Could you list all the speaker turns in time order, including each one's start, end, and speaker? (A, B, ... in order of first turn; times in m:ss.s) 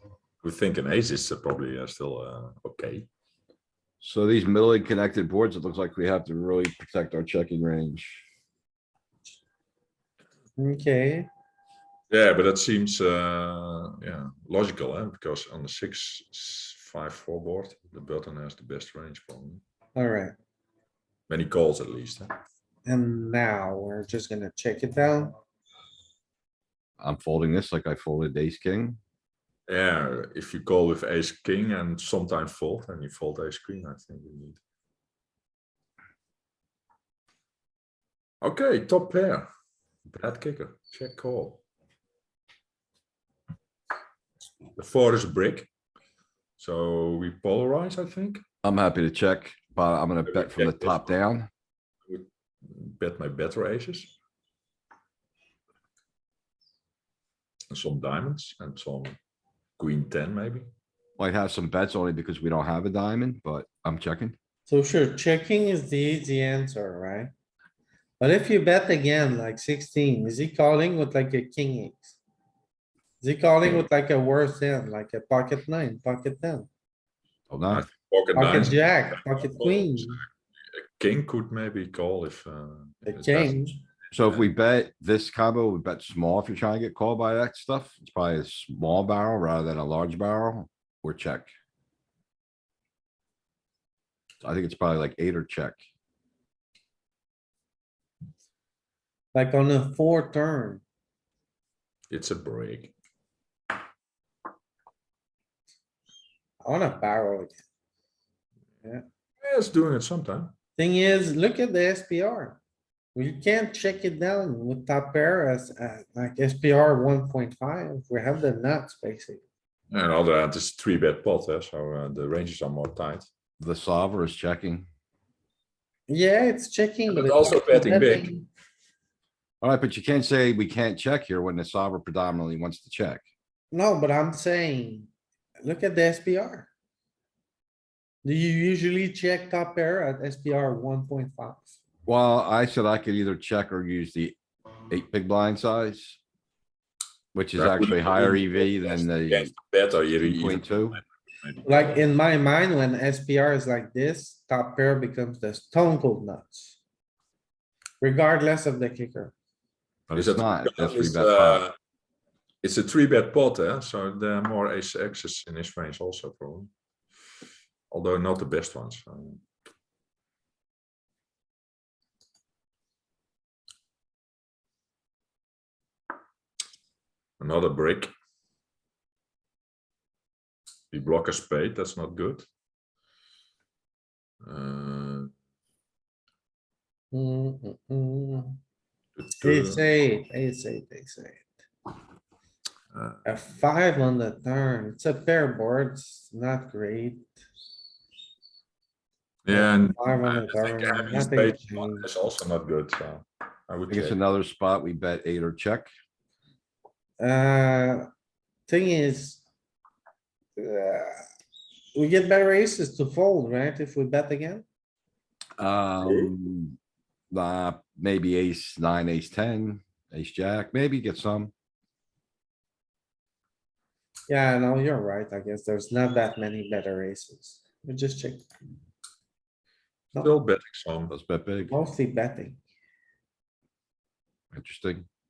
0:00.4-0:03.1 A
0:04.0-0:08.2 B
0:10.6-0:11.3 C
0:12.1-0:19.6 A
0:20.0-0:20.3 C
0:21.3-0:22.4 A
0:22.8-0:25.3 C
0:27.0-0:29.0 B
0:29.7-0:34.6 A
0:38.4-0:39.5 A
0:40.1-0:41.6 A
0:44.8-0:45.7 A
0:46.6-0:48.4 A
0:48.6-0:51.5 B
0:50.2-0:51.2 A
0:52.1-0:54.1 A
0:57.7-0:59.2 A
0:59.8-1:00.7 A
1:01.2-1:04.4 B
1:04.7-1:07.3 C
1:08.2-1:12.2 C
1:13.2-1:16.7 C
1:17.5-1:17.8 B
1:17.7-1:23.6 A
1:18.3-1:20.2 C
1:23.1-1:23.8 C
1:24.1-1:31.5 B
1:34.4-1:35.8 B
1:39.3-1:40.8 C
1:42.1-1:42.9 A
1:46.6-1:47.6 C
1:49.4-1:50.5 A
1:50.8-1:52.6 C
1:53.1-1:59.4 C
1:59.9-2:03.3 A
2:03.6-2:04.9 B
2:06.1-2:08.5 C
2:07.1-2:08.3 A
2:09.6-2:13.2 B
2:13.7-2:15.1 C
2:15.6-2:16.7 C
2:18.2-2:21.8 C
2:22.0-2:24.4 B
2:24.9-2:26.2 B
2:27.3-2:29.5 B
2:27.6-2:31.9 A
2:30.2-2:31.0 B
2:31.6-2:36.8 C
2:38.0-2:39.3 C
2:40.1-2:41.6 B
2:40.1-2:41.7 A
2:42.6-2:46.7 A
2:47.9-2:49.4 A
2:57.4-2:58.1 A
3:00.9-3:02.4 A
3:04.4-3:05.3 A
3:07.1-3:08.6 C
3:09.2-3:09.8 A
3:09.4-3:11.5 C
3:13.2-3:17.4 C
3:19.4-3:24.2 A
3:19.5-3:22.1 C
3:23.9-3:25.9 B
3:27.2-3:28.1 C
3:28.7-3:29.4 C
3:30.6-3:31.2 C
3:31.9-3:34.6 C
3:35.6-3:36.8 B
3:37.3-3:41.5 B
3:44.3-3:48.5 C
3:50.1-3:51.1 A
3:51.1-3:51.8 B
3:51.7-3:52.6 C
3:54.5-3:55.0 B